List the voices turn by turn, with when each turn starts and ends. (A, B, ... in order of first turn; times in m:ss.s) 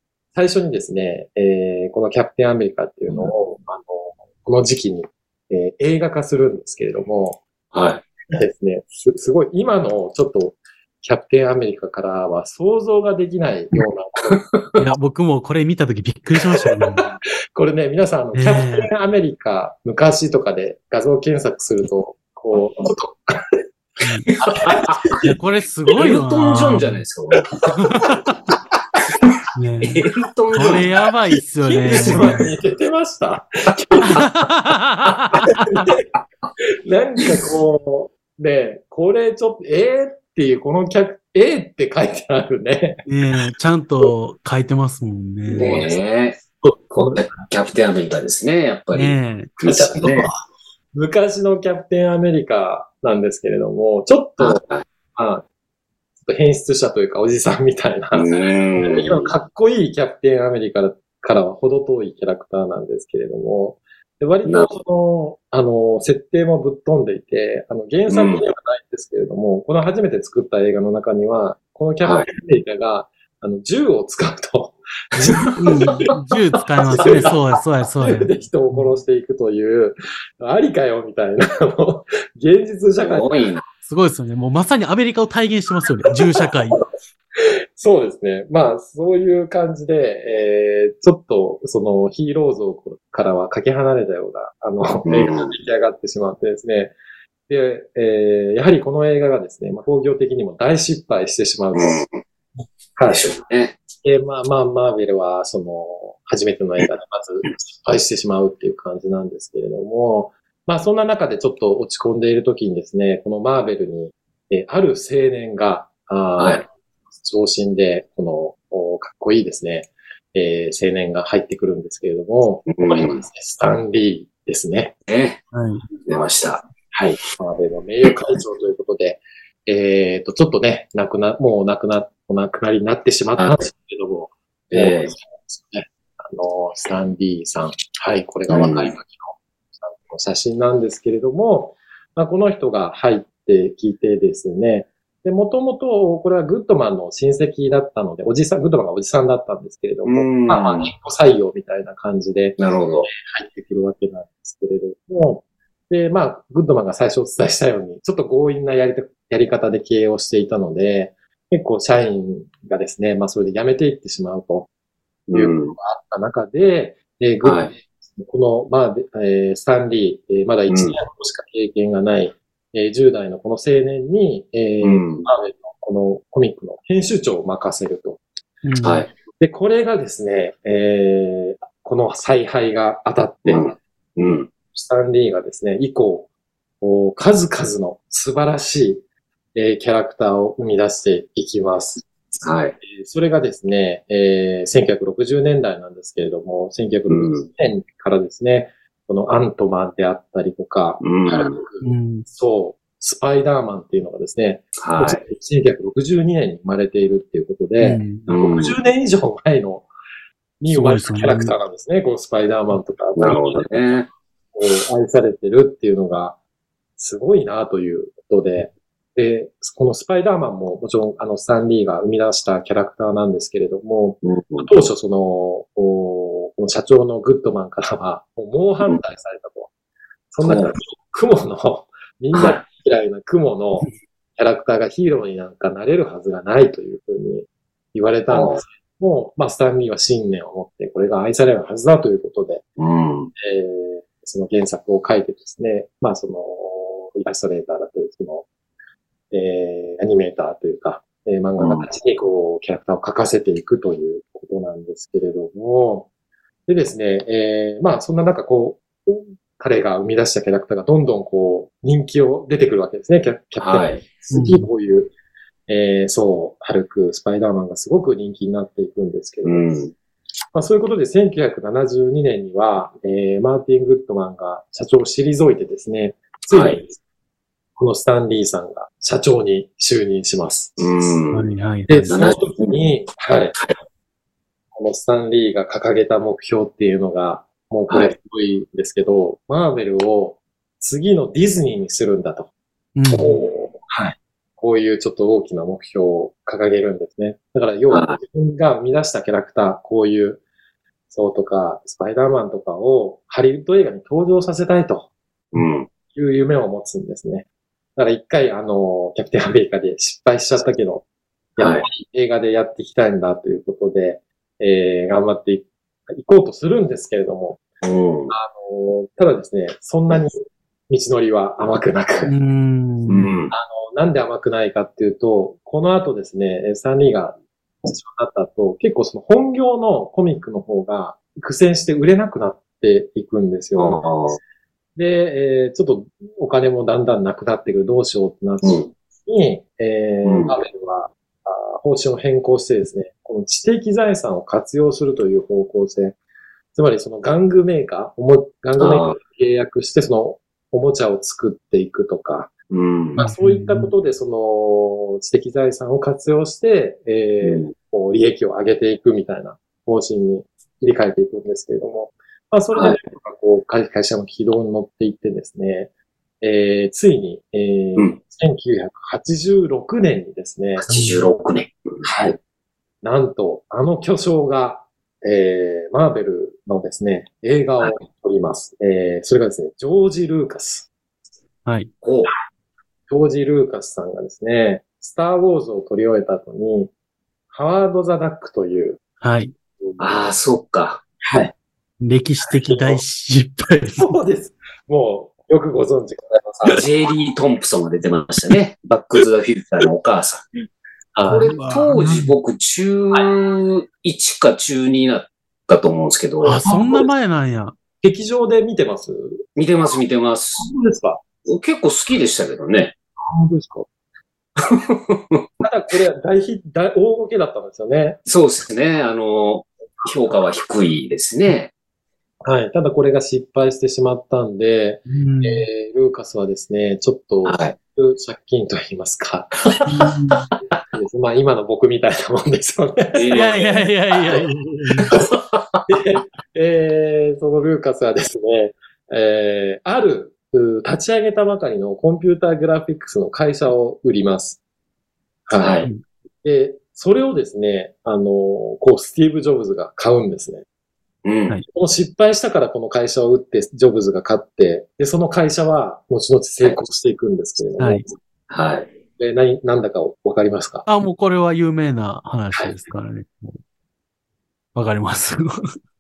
0:00.3-0:07.4 A
0:07.7-0:08.0 B
0:08.3-0:14.9 A
0:14.8-0:17.1 C
0:17.6-0:23.6 A
0:18.3-0:18.9 C
0:24.0-0:24.3 C
0:24.4-0:25.4 A
0:24.4-0:25.0 B
0:25.2-0:27.0 C
0:25.9-0:27.5 B
0:27.6-0:28.3 C
0:29.6-0:30.0 C
0:29.8-0:30.8 B
0:30.5-0:32.5 C
0:31.6-0:34.2 A
0:31.8-0:32.5 B
0:34.1-0:35.8 C
0:35.4-0:36.0 A
0:36.8-0:43.1 A
0:43.1-0:45.8 C
0:45.5-0:50.3 B
0:45.5-0:46.0 A
0:46.6-0:47.5 A
0:48.9-0:50.2 C
0:49.6-0:50.2 A
0:50.9-0:54.6 A
0:54.4-0:54.8 B
0:55.2-0:55.4 A
0:56.2-1:16.0 A
0:58.2-0:59.3 B
1:04.4-1:04.7 B
1:08.1-1:08.4 B
1:12.0-1:12.3 B
1:15.6-1:19.0 C
1:16.9-1:17.5 A
1:16.9-1:17.3 B
1:18.0-1:23.5 A
1:23.0-1:23.6 B
1:23.9-1:26.8 C
1:27.4-1:37.0 A
1:35.1-1:35.5 B
1:37.5-1:42.0 A
1:41.8-1:42.2 B
1:43.0-1:43.3 A
1:43.1-1:43.8 B
1:44.0-1:56.7 A
1:57.2-2:04.9 A
2:02.7-2:03.2 B
2:05.1-2:05.4 B
2:05.5-2:05.9 C
2:06.1-2:06.6 B
2:06.9-2:44.7 A
2:14.7-2:15.1 B
2:18.5-2:18.9 B
2:30.1-2:30.9 B
2:32.6-2:33.1 B
2:45.3-2:45.8 B
2:45.3-2:58.2 A
2:47.4-2:47.7 B
2:50.7-2:51.0 B
2:54.8-2:55.3 B
2:58.6-2:59.1 C
2:58.8-2:59.1 B
2:59.4-3:03.8 A
3:03.5-3:04.5 B
3:04.7-3:06.3 A
3:06.8-3:09.0 A
3:09.6-3:12.1 A
3:12.4-3:12.8 B
3:12.8-3:29.9 A
3:17.1-3:17.5 B
3:21.0-3:21.6 B
3:21.8-3:22.3 C
3:24.8-3:25.2 B
3:27.8-3:28.3 C
3:28.3-3:28.8 B
3:30.6-3:34.0 A
3:30.7-3:31.5 C
3:33.2-3:34.1 B
3:34.5-3:36.4 A
3:37.0-3:49.7 A
3:44.2-3:44.7 B
3:50.3-4:02.6 A
3:50.4-3:50.7 B
3:52.3-3:52.6 B
3:58.3-3:58.6 B
4:02.8-4:03.3 B
4:03.4-4:08.5 A
4:09.3-4:16.1 A
4:11.6-4:11.9 B
4:16.7-4:25.1 A
4:23.6-4:24.0 B
4:24.3-4:24.7 C
4:25.7-4:29.8 A
4:29.4-4:29.9 B
4:30.5-4:37.0 A
4:36.5-4:36.8 B
4:37.8-4:41.2 A
4:40.8-4:41.5 B
4:41.3-4:42.2 C
4:41.9-4:43.6 A
4:42.1-4:42.8 B
4:44.8-4:52.5 A
4:47.9-4:48.1 B
4:53.0-4:53.4 C
4:53.1-5:00.4 A
4:57.9-4:58.2 B
5:01.1-5:05.1 A
5:05.5-5:05.9 B
5:06.1-5:11.0 A
5:11.6-5:17.6 A
5:11.6-5:11.9 B
5:17.8-5:18.3 B
5:18.3-5:22.3 A
5:22.3-5:23.3 C
5:23.1-5:23.5 B
5:23.5-5:34.1 A
5:33.8-5:34.4 B
5:35.0-5:46.2 A
5:38.6-5:38.9 B
5:40.2-5:40.6 B
5:46.7-5:52.5 A
5:48.8-5:49.2 B
5:52.7-5:53.2 B
5:53.2-6:05.9 A
5:53.2-5:53.9 C
5:57.4-5:57.7 B
6:06.4-6:11.0 A
6:10.8-6:12.1 B
6:10.9-6:11.2 C
6:12.0-6:12.4 A
6:13.0-6:20.9 A
6:22.0-6:22.3 B
6:23.1-6:26.9 A
6:27.5-6:29.0 A
6:29.2-6:29.5 C
6:30.0-6:31.0 B
6:31.2-6:31.5 A
6:32.0-6:34.1 C
6:32.5-6:33.0 A
6:34.0-6:36.8 A
6:36.8-6:40.4 B
6:41.2-6:41.5 A
6:41.3-6:46.6 B
6:41.4-6:42.3 C
6:46.4-6:47.8 C
6:46.5-6:47.1 A
6:48.0-6:49.4 A
6:49.6-6:50.7 B
6:50.6-6:51.2 A
6:51.4-6:52.9 B
6:53.2-6:53.9 A
6:54.6-6:55.5 B
6:55.6-6:58.2 A
6:58.3-7:01.7 B
7:02.4-7:09.9 A
7:05.1-7:05.7 C
7:07.4-7:07.8 B
7:09.9-7:10.5 C
7:10.9-7:13.7 A
7:13.1-7:13.9 B
7:13.3-7:15.1 C
7:15.2-7:15.8 B
7:15.9-7:24.6 A
7:25.5-7:25.9 A
7:25.5-7:25.9 B
7:26.4-7:30.6 A
7:31.2-7:31.6 B
7:31.7-7:38.1 A
7:37.8-7:38.0 C
7:38.5-7:38.9 B
7:39.2-7:40.9 A
7:40.9-7:43.6 C
7:42.5-7:42.8 A
7:44.8-7:45.8 C